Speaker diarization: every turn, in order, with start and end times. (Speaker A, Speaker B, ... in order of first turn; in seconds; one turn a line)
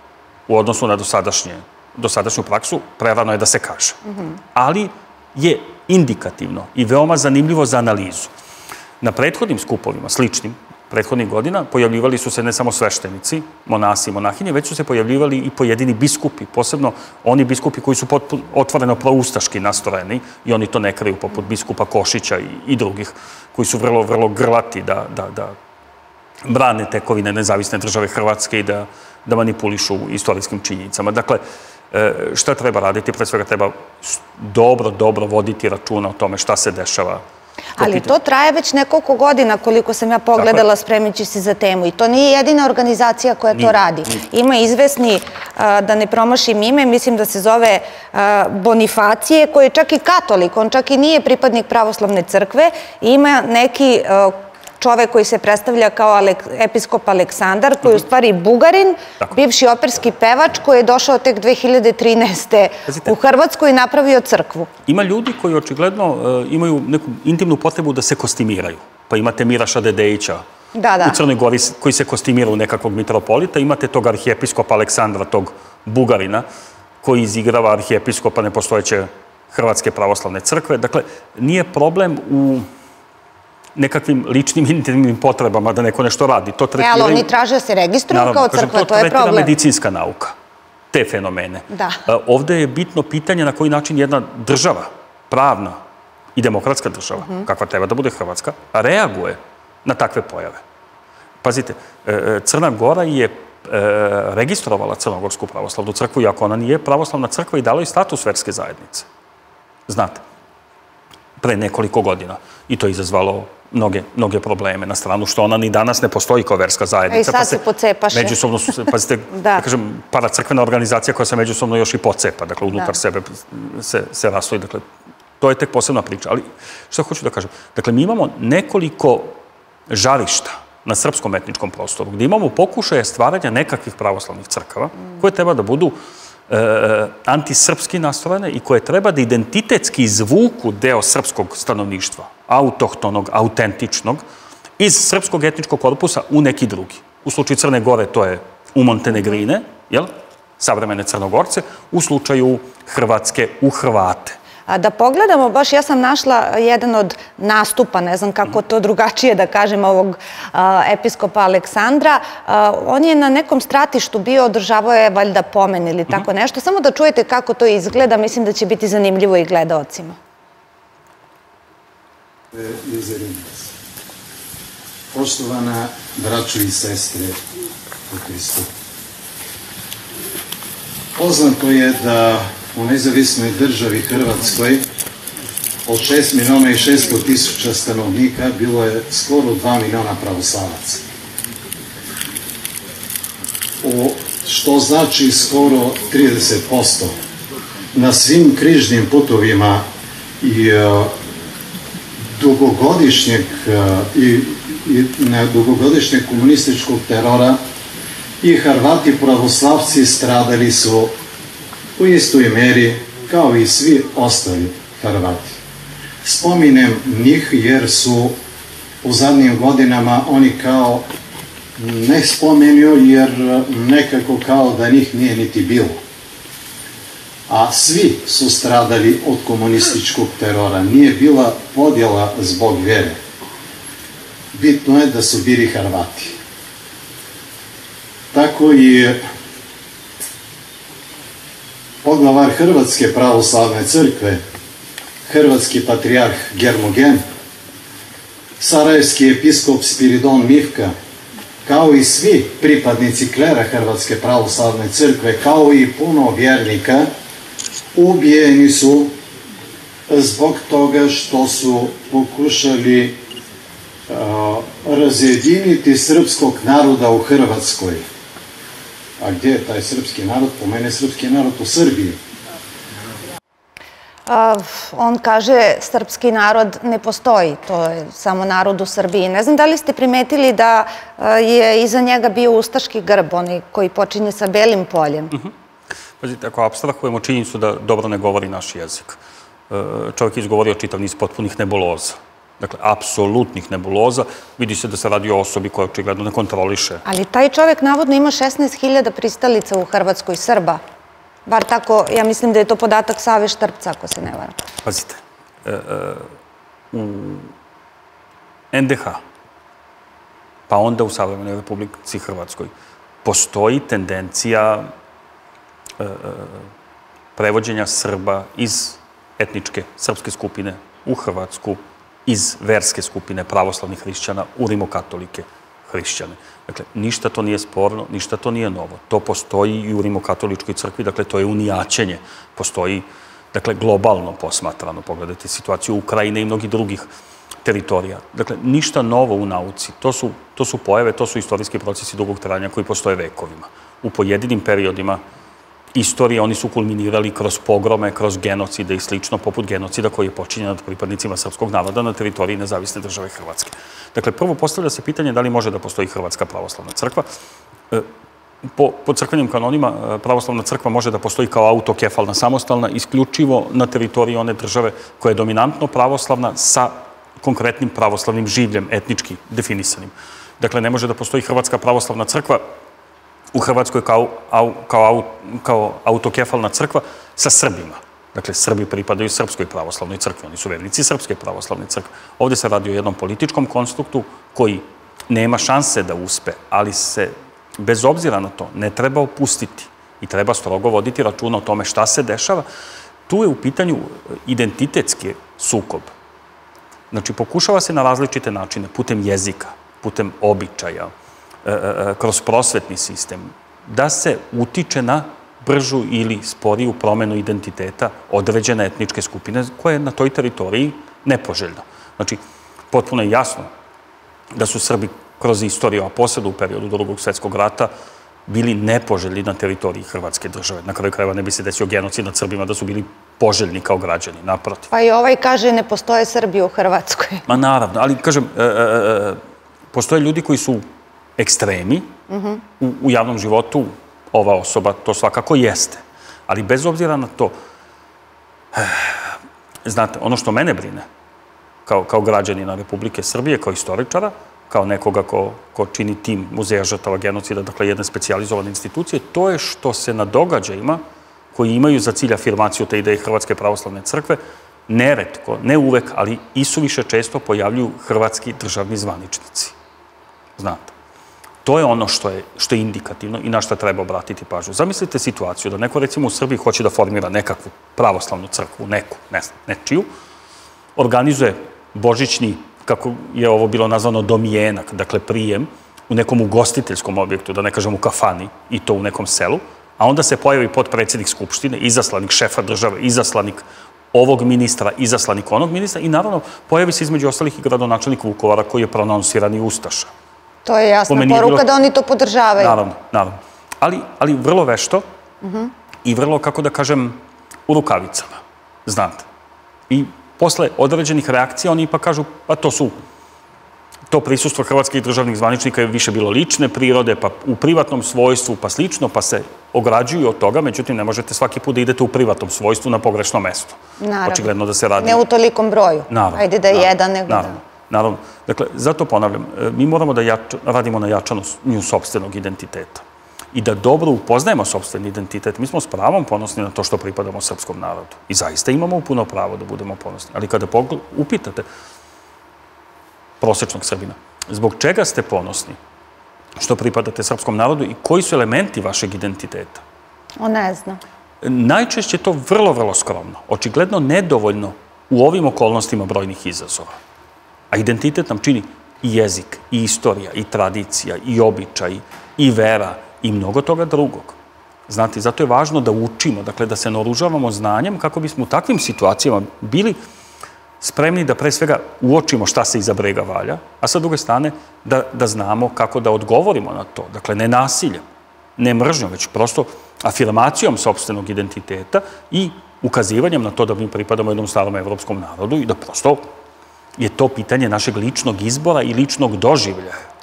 Speaker A: 0.5-8.3
Speaker A: 9.0-25.5
Speaker A: 26.4-37.2
Speaker B: 37.8-64.7
Speaker A: 37.8-38.1
Speaker A: 40.4-40.6
Speaker A: 43.5-44.2
Speaker A: 64.9-70.4
Speaker B: 70.7-71.2
Speaker A: 71.0-76.5
Speaker A: 77.0-82.7
Speaker A: 83.7-87.3
Speaker B: 86.8-89.5
Speaker A: 88.1-90.3
Speaker A: 90.9-95.8
Speaker B: 91.7-92.0
Speaker A: 96.3-100.6
Speaker A: 101.4-109.1
Speaker A: 109.9-110.2
Speaker A: 111.4-117.6
Speaker B: 117.1-118.3
Speaker A: 118.1-124.8
Speaker B: 119.3-119.6
Speaker A: 125.4-129.4
Speaker A: 129.9-135.9
Speaker A: 136.5-144.2
Speaker A: 144.8-154.4
Speaker B: 154.7-170.2
Speaker C: 172.5-173.7
Speaker C: 175.1-177.4
Speaker C: 178.1-178.7
Speaker C: 181.2-184.8
Speaker C: 185.8-191.0
Speaker C: 193.8-197.1
Speaker C: 197.9-199.8
Speaker C: 200.4-201.1
Speaker C: 202.2-207.6
Speaker C: 208.4-211.1
Speaker C: 212.0-215.6
Speaker C: 216.2-218.3
Speaker C: 219.0-221.1
Speaker C: 221.8-226.0
Speaker C: 227.5-233.2
Speaker C: 234.5-236.4
Speaker C: 238.3-239.2
Speaker C: 242.0-244.4
Speaker C: 245.2-247.2
Speaker C: 248.6-250.9
Speaker C: 251.6-257.1
Speaker C: 257.9-259.1
Speaker C: 260.1-263.2
Speaker C: 264.1-268.0
Speaker C: 269.2-272.2
Speaker B: 274.3-285.3
Speaker A: 286.2-297.0
Speaker B: 297.0-300.8
Speaker B: 301.5-304.6
Speaker A: 304.8-306.3
Speaker A: 306.9-307.5
Speaker A: 308.7-309.2
Speaker A: 310.7-312.7
Speaker A: 313.2-314.9
Speaker A: 316.0-316.7
Speaker A: 317.4-337.1
Speaker A: 337.6-345.2
Speaker A: 345.9-357.2
Speaker A: 358.7-372.6
Speaker A: 373.5-392.6
Speaker A: 393.3-396.1
Speaker A: 397.1-401.1
Speaker A: 401.6-412.4
Speaker A: 412.9-413.7
Speaker A: 414.5-417.9
Speaker A: 418.5-424.9
Speaker B: 424.9-427.5
Speaker A: 427.5-429.4
Speaker A: 429.9-430.8
Speaker A: 431.4-432.1
Speaker B: 432.3-432.6
Speaker A: 432.8-437.5
Speaker A: 438.7-439.3
Speaker A: 439.8-441.0
Speaker A: 441.9-451.0
Speaker A: 451.5-459.7
Speaker A: 460.6-460.9
Speaker A: 461.6-470.1
Speaker A: 470.9-490.1
Speaker B: 490.6-492.8
Speaker A: 491.1-491.7
Speaker A: 492.6-495.0
Speaker B: 495.4-495.7
Speaker A: 496.0-499.2
Speaker A: 499.9-502.9
Speaker A: 504.1-515.2
Speaker B: 514.0-517.6
Speaker A: 516.1-531.6
Speaker A: 533.4-535.8
Speaker A: 536.6-539.8
Speaker B: 540.4-541.0
Speaker A: 541.4-546.9
Speaker A: 547.7-554.4
Speaker A: 554.9-560.0
Speaker A: 560.8-568.0
Speaker A: 568.6-576.2
Speaker A: 577.0-580.0